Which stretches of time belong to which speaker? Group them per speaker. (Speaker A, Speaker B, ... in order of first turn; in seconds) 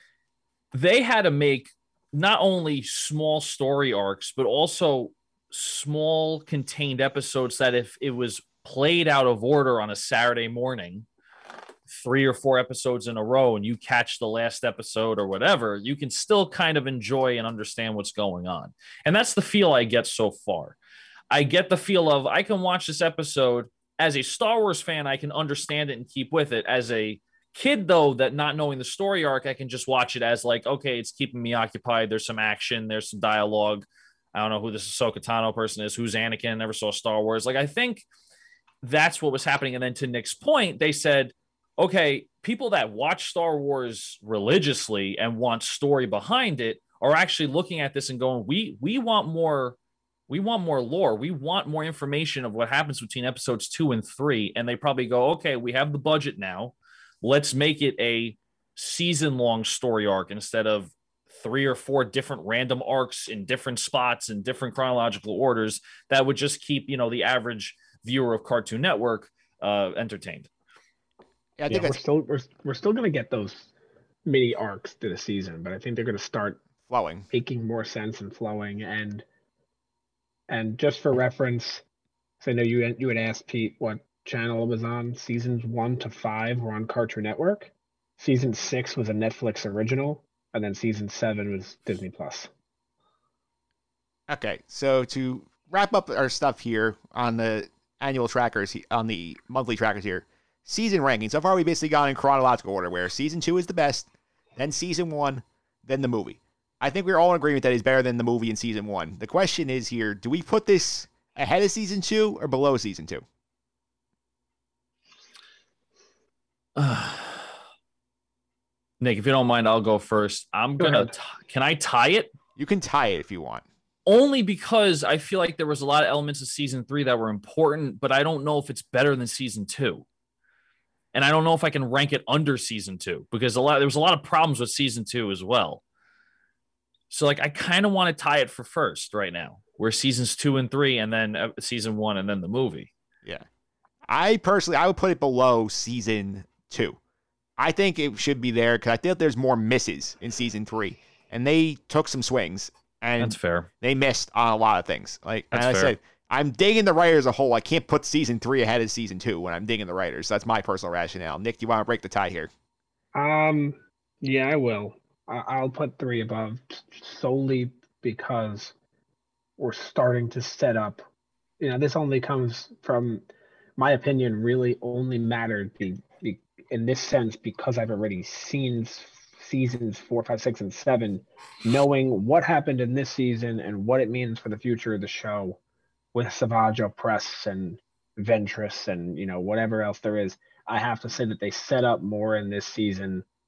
Speaker A: 0.7-11.1, 11.9-20.8, 21.3-38.1, 38.8-49.8, 50.3-70.5, 116.8-117.5, 119.0-122.3, 124.1-130.1, 131.1-135.8, 137.1-142.9, 153.2-153.7, 155.5-155.9
Speaker B: 71.6-72.0, 76.8-77.3, 94.3-113.2, 122.6-123.7, 144.1-147.0, 147.6-162.5
Speaker C: 71.7-73.7, 74.2-76.6, 77.3-79.2, 80.5-81.8, 82.4-92.5, 120.8-121.1, 163.2-168.7, 169.6-171.1, 171.6-173.2, 173.8-185.6, 186.1-193.2